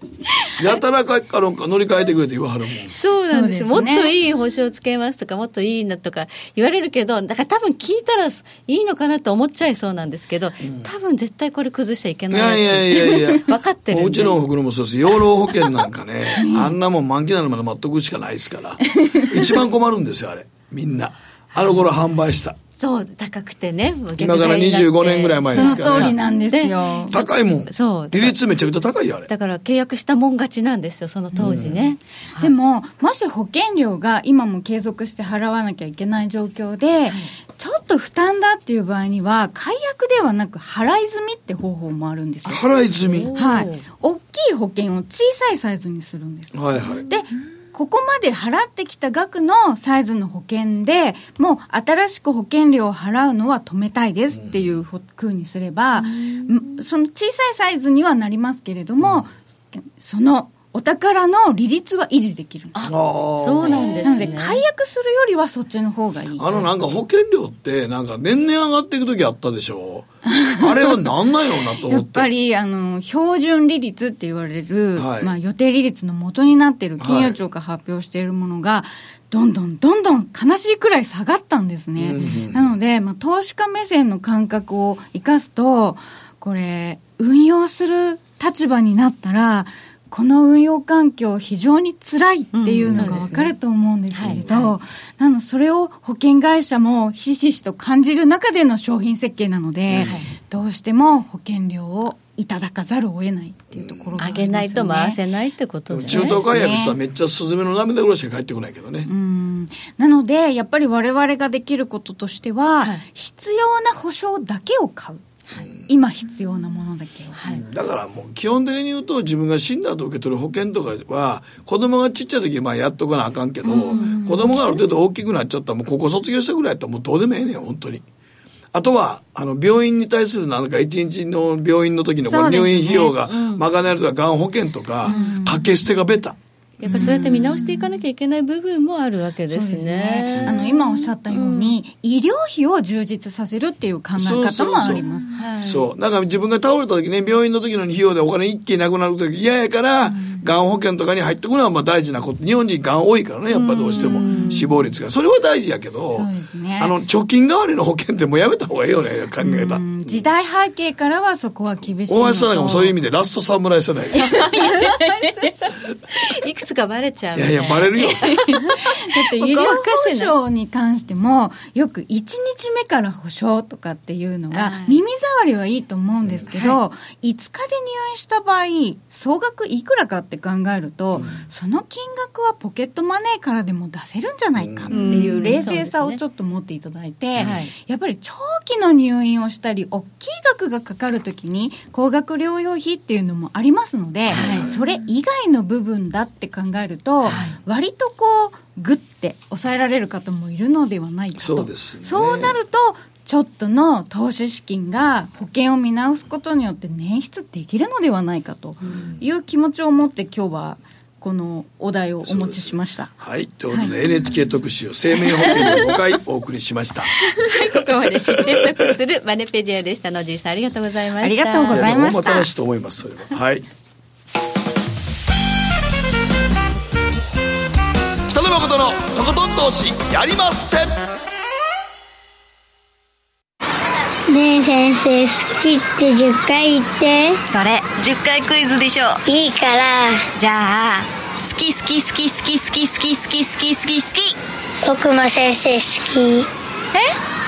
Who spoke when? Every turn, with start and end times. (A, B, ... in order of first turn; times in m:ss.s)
0:00.6-0:02.9 A
0:02.9-0:14.4 B
0:03.2-0:04.1 C
0:12.3-0:22.6 A
0:16.4-0:16.8 C
0:18.9-0:19.6 C
0:22.8-0:28.4 B
0:24.2-0:26.2 A
0:25.5-0:27.2 C
0:27.1-0:29.3 A
0:29.3-0:32.5 B
0:31.4-0:31.8 A
0:32.4-0:42.7 C
0:42.5-0:43.3 A
0:43.1-0:43.8 B
0:43.3-1:02.9 C
0:46.5-0:47.0 A
0:56.0-0:56.7 B
0:59.0-0:59.3 A
1:02.7-1:04.6 B
1:02.9-1:04.3 A
1:04.0-1:06.7 C
1:06.4-1:12.3 A
1:10.3-1:10.9 C
1:11.8-1:45.2 C
1:15.0-1:15.3 A
1:17.0-1:17.4 A
1:22.0-1:22.7 A
1:32.5-1:33.5 B
1:34.1-1:34.7 B
1:34.2-1:34.5 A
1:40.0-1:40.3 B
1:43.7-1:44.1 A
1:44.2-1:46.5 B
1:45.9-1:49.1 A
1:46.0-1:47.0 C
1:49.0-1:55.3 C
1:55.9-1:57.4 C
1:57.4-1:57.6 B
1:57.5-2:08.0 A
2:03.6-2:04.8 C
2:03.7-2:04.7 B
2:08.7-2:17.1 A
2:12.3-2:13.6 B
2:15.1-2:15.7 C
2:15.1-2:15.3 B
2:16.8-2:21.8 B
2:16.9-2:17.9 C
2:19.5-2:25.4 C
2:24.2-2:25.1 A
2:25.3-2:25.9 B
2:25.6-2:40.2 A
2:33.5-2:34.6 B
2:34.0-2:34.7 C
2:36.2-2:36.9 C
2:39.4-2:43.0 C
2:42.1-2:44.7 A
2:44.2-2:50.3 B
2:44.4-2:45.6 C
2:47.4-2:48.4 A
2:48.3-3:33.2 C
2:54.5-2:55.0 B
2:56.5-2:56.8 B
3:01.2-3:01.4 A
3:04.6-3:05.0 A
3:04.9-3:06.2 B
3:07.4-3:07.7 B
3:14.3-3:14.8 A
3:14.3-3:14.8 B
3:17.2-3:17.6 B
3:21.4-3:22.6 A
3:32.2-3:37.1 A
3:33.7-3:34.0 C
3:37.3-3:42.0 B
3:41.2-3:42.5 C
3:41.7-3:43.7 A
3:48.3-3:51.0 A
3:54.3-3:57.4 D
3:57.4-3:59.2 E
3:59.3-4:00.2 D
4:00.4-4:04.4 E
4:04.8-4:06.5 D